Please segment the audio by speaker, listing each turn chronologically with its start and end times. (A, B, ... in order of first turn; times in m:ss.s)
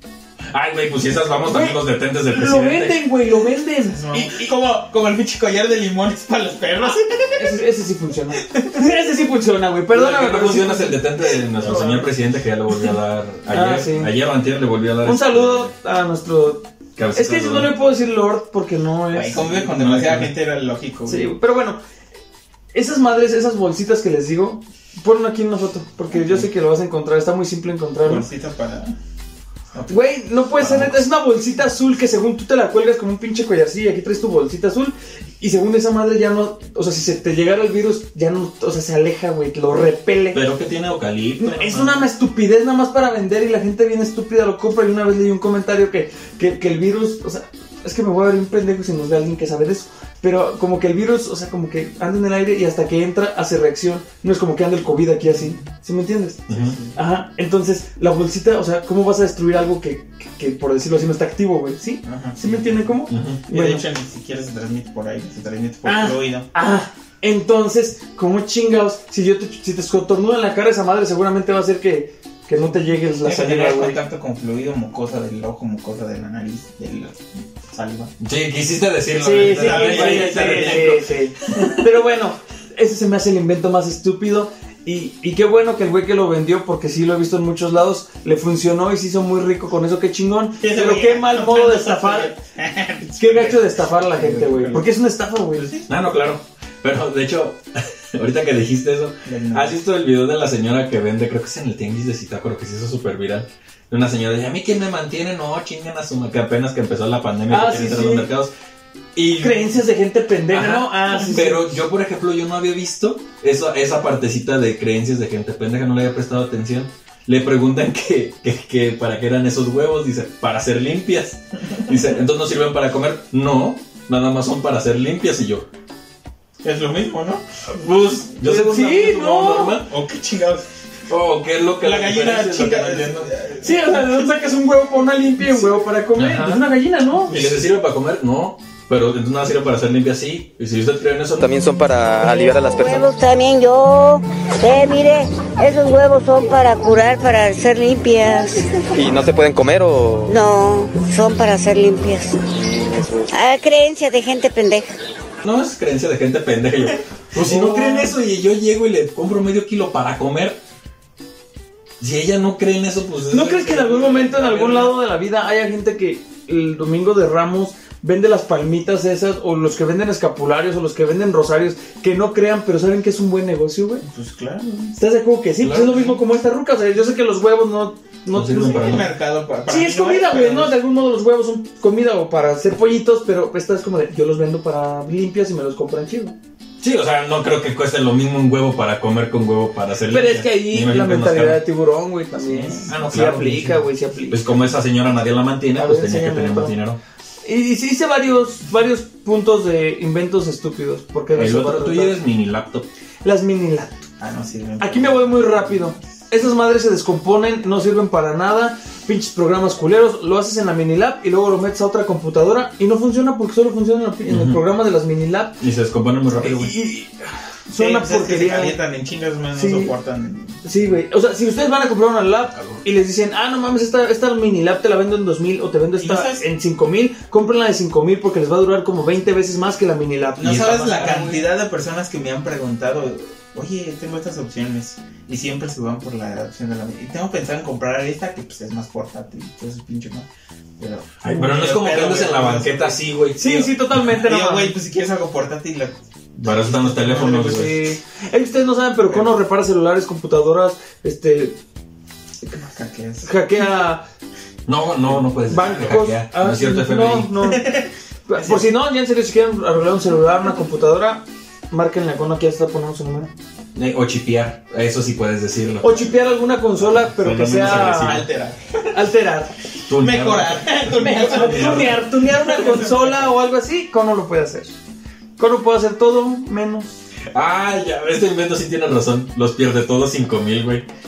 0:00.5-0:03.0 A
0:01.4-0:04.5 B
0:03.8-0:07.6 C
0:07.4-0:12.1 B
0:08.4-0:08.8 C
0:09.9-0:15.7 A
0:13.5-0:14.1 B
0:15.0-0:19.7 B
0:17.0-0:17.7 A
0:19.1-0:21.3 C
0:19.6-0:20.3 A
0:21.1-0:21.8 B
0:22.7-0:28.3 B
0:26.1-0:26.5 C
0:28.0-0:29.0 C
0:29.7-0:30.0 C
0:29.9-0:40.4 B
0:30.6-0:31.1 A
0:40.3-0:42.0 A
0:41.4-1:03.8 B
0:55.3-0:55.6 C
0:56.5-0:56.8 A
0:56.5-0:57.0 C
1:02.0-1:06.5 C
1:03.1-1:03.4 A
1:05.8-1:14.0 B
1:13.2-1:18.1 C
1:18.2-1:21.0 A
1:19.1-1:32.3 B
1:19.4-1:21.0 C
1:30.6-1:34.9 C
1:33.2-1:35.7 B
1:35.9-1:37.6 A
1:38.1-1:48.5 A
1:39.2-1:39.8 C
1:47.5-1:48.3 B
1:49.1-1:49.8 A
1:49.4-1:51.7 B
1:50.5-2:05.7 A
2:06.6-2:07.4 C
2:07.7-2:09.9 A
2:08.4-2:09.8 B
2:09.8-2:10.7 C
2:11.1-2:13.3 A
2:11.8-2:14.3 C
2:13.6-2:17.4 B
2:16.1-2:16.7 A
2:17.2-2:21.6 A
2:21.4-2:23.1 D
2:22.2-2:28.8 E
2:28.9-2:30.3 D
2:30.3-2:32.4 E
2:33.3-2:34.9 E
2:35.4-2:40.6 A
2:37.3-2:38.2 B
2:42.0-2:44.9 A
2:43.3-2:54.0 B
2:54.0-2:55.0 C
2:55.0-2:59.0 B
2:55.6-2:56.2 A
2:58.3-2:59.1 A
2:58.5-3:00.8 C
2:59.7-3:06.4 B
3:06.8-3:11.6 A
3:10.1-3:14.6 B
3:12.4-3:17.0 A
3:15.7-3:16.8 B
3:17.4-3:22.2 B
3:21.3-3:22.9 A
3:23.2-3:24.1 B
3:24.2-3:26.1 C
3:24.8-3:35.6 B
3:34.3-3:34.6 A
3:35.6-3:36.7 A
3:36.3-3:37.1 B
3:37.7-3:38.8 B
3:37.7-3:40.6 C
3:39.5-3:39.9 B
3:40.6-3:50.8 B
3:42.5-3:42.8 A
3:46.0-3:46.4 C
3:50.4-4:00.3 C
3:50.4-3:51.4 A
4:00.8-4:03.0 C
4:01.2-4:03.8 A
4:03.4-4:04.8 B
4:04.0-4:07.7 C
4:06.4-4:07.8 A
4:07.1-4:11.6 B
4:09.0-4:09.4 C
4:12.5-4:13.3 C
4:13.2-4:14.0 B
4:14.7-4:17.4 A
4:15.5-4:17.7 B
4:17.4-4:18.7 C
4:18.3-4:23.3 B
4:23.7-4:26.1 A
4:25.8-4:28.2 B
4:26.8-4:28.3 A
4:27.7-4:28.6 C
4:28.9-4:29.5 B
4:29.9-4:32.0 A
4:29.9-4:33.3 C
4:31.0-4:34.8 B
4:35.4-4:37.0 B
4:37.3-4:40.8 A